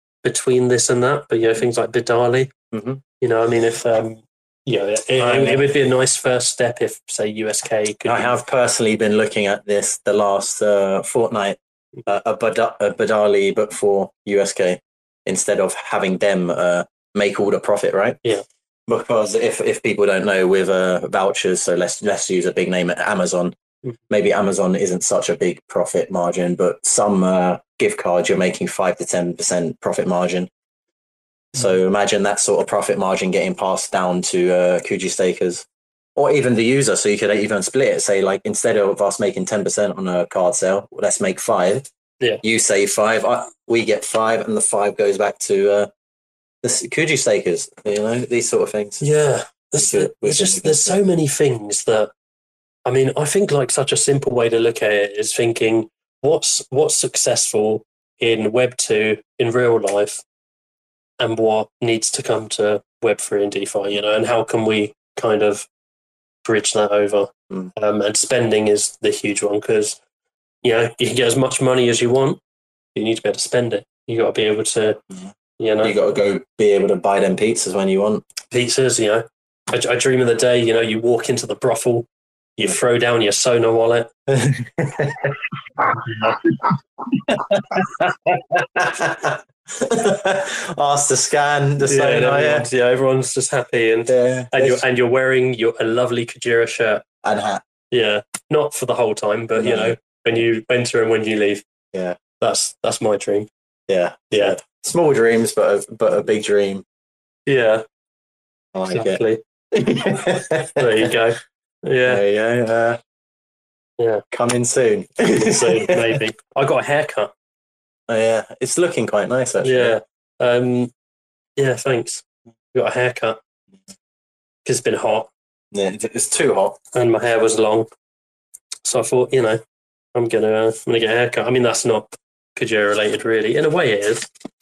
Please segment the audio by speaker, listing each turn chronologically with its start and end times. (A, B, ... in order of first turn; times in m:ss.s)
0:00.2-0:02.5 A
0:02.7-0:03.0 B
0:03.2-0:08.4 A
0:05.2-0:05.7 B
0:08.0-0:18.2 B
0:18.9-0:23.5 B
0:24.1-0:30.5 B
0:31.5-0:35.6 B
0:36.2-0:41.8 B
0:42.4-0:45.9 B
0:46.6-0:49.0 B
0:49.0-0:52.1 A
0:49.8-0:51.0 B
0:52.8-1:00.2 A
1:01.2-1:05.6 A
1:06.4-1:10.0 A
1:10.6-1:12.4 A
1:12.9-1:15.0 A
1:15.6-1:15.9 A
1:15.8-1:18.2 B
1:18.5-1:22.0 A
1:22.6-1:24.1 A
1:24.3-1:25.3 B
1:26.1-1:26.4 A
1:27.1-1:32.7 B
1:31.8-1:37.0 A
1:34.1-1:34.8 B
1:37.2-1:37.6 B
1:37.9-1:41.6 A
1:39.6-1:40.4 B
1:42.4-1:43.5 A
1:43.9-1:46.8 B
1:44.3-1:44.6 A
1:47.5-1:47.8 A
1:48.7-1:51.1 B
1:48.9-1:49.4 A
1:50.8-1:52.2 A
1:52.1-1:53.0 B
1:54.3-1:56.2 B
1:55.3-1:57.3 A
1:58.1-2:00.0 B
1:59.6-2:00.9 A
2:01.6-2:03.4 A
2:04.6-2:05.3 A
2:05.7-2:06.8 B
2:06.9-2:07.9 A
2:08.8-2:09.6 A
2:10.1-2:14.3 A